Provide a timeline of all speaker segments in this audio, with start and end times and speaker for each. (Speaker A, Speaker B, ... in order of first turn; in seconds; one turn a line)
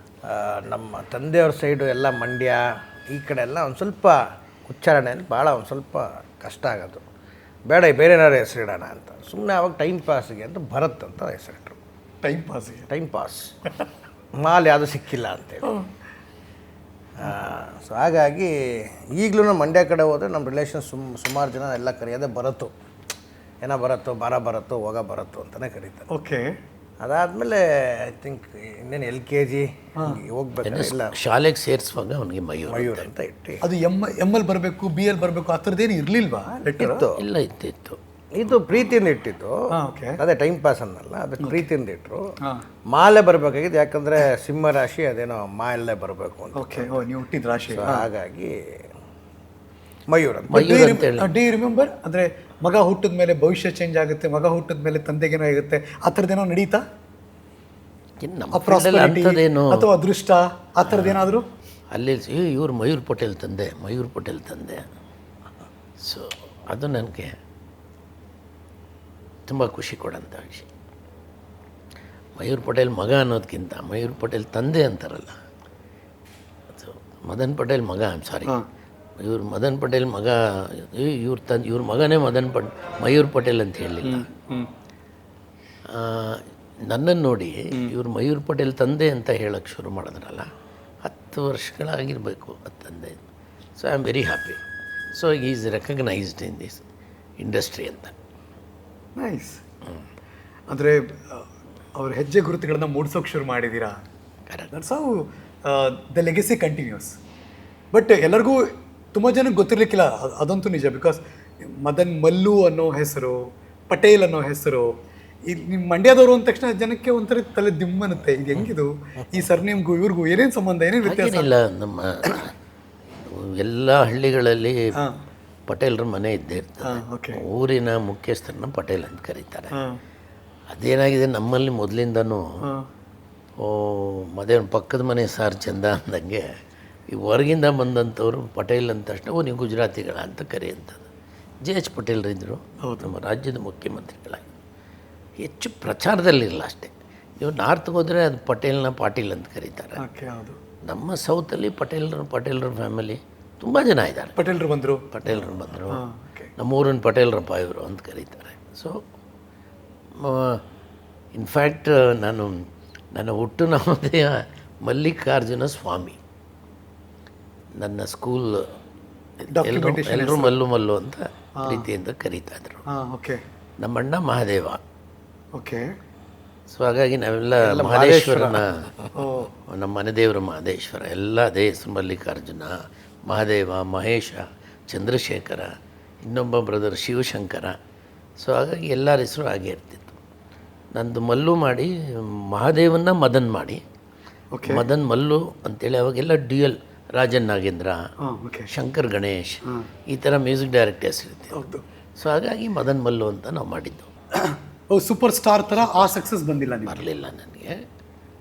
Speaker A: 0.3-7.0
Speaker A: 7.7-11.8
Speaker B: 12.2-12.9
Speaker A: 12.9-13.5
Speaker A: 14.4-15.7
Speaker A: 17.2-22.7
Speaker A: 23.6-26.1
Speaker B: 26.1-26.5
Speaker A: 27.0-31.1
Speaker C: 30.6-33.1
Speaker A: 32.7-33.6
Speaker B: 33.6-37.0
Speaker A: 36.8-37.2
Speaker C: 37.2-38.0
Speaker A: 38.3-39.6
Speaker B: 39.7-40.2
Speaker A: 40.2-42.3
Speaker B: 41.4-41.7
Speaker A: 42.9-47.0
Speaker B: 46.5-48.1
Speaker A: 47.7-48.8
Speaker A: 50.1-50.6
Speaker C: 50.5-51.3
Speaker B: 50.5-56.8
Speaker C: 58.2-59.9
Speaker B: 58.5-61.5
Speaker C: 60.9-61.3
Speaker C: 61.9-64.8
Speaker C: 66.0-67.3
Speaker C: 69.5-70.7
Speaker C: 72.4-75.4
Speaker C: 76.7-78.6
Speaker C: 79.2-84.3
Speaker B: 84.0-84.7
Speaker C: 85.9-90.5
Speaker C: 91.0-93.2
Speaker C: 93.8-94.6
Speaker C: 95.2-96.8
Speaker C: 97.4-98.1
Speaker B: 99.2-99.6
Speaker B: 100.7-104.0
Speaker B: 104.7-107.2
Speaker B: 107.9-114.9
Speaker B: 115.5-121.5
Speaker C: 121.0-122.5
Speaker C: 123.2-124.8
Speaker C: 125.7-129.7
Speaker B: 126.8-127.4
Speaker C: 130.7-132.5
Speaker C: 133.6-136.4
Speaker C: 137.1-141.1
Speaker C: 141.6-144.4
Speaker B: 142.8-143.1
Speaker C: 145.4-150.0
Speaker B: 150.0-150.6
Speaker C: 150.8-154.4
Speaker B: 154.4-155.1
Speaker C: 155.1-156.0
Speaker B: 155.9-156.5
Speaker C: 156.6-158.9
Speaker C: 160.2-160.6
Speaker C: 161.3-166.2
Speaker C: 167.8-168.7
Speaker C: 169.4-172.8
Speaker B: 169.5-170.5
Speaker B: 171.6-171.9
Speaker B: 172.9-173.4
Speaker C: 173.8-174.8
Speaker B: 175.5-175.9
Speaker C: 176.7-178.9
Speaker A: 177.6-178.7
Speaker B: 179.2-179.5
Speaker C: 179.7-182.8
Speaker C: 183.3-185.7
Speaker C: 186.2-187.8
Speaker C: 188.4-190.2
Speaker C: 190.9-193.8
Speaker B: 194.5-194.8
Speaker C: 194.6-198.0
Speaker B: 198.3-198.7
Speaker C: 198.7-201.6
Speaker B: 201.5-201.8
Speaker C: 202.2-204.1
Speaker B: 204.4-207.0
Speaker C: 205.8-206.2
Speaker C: 206.8-207.8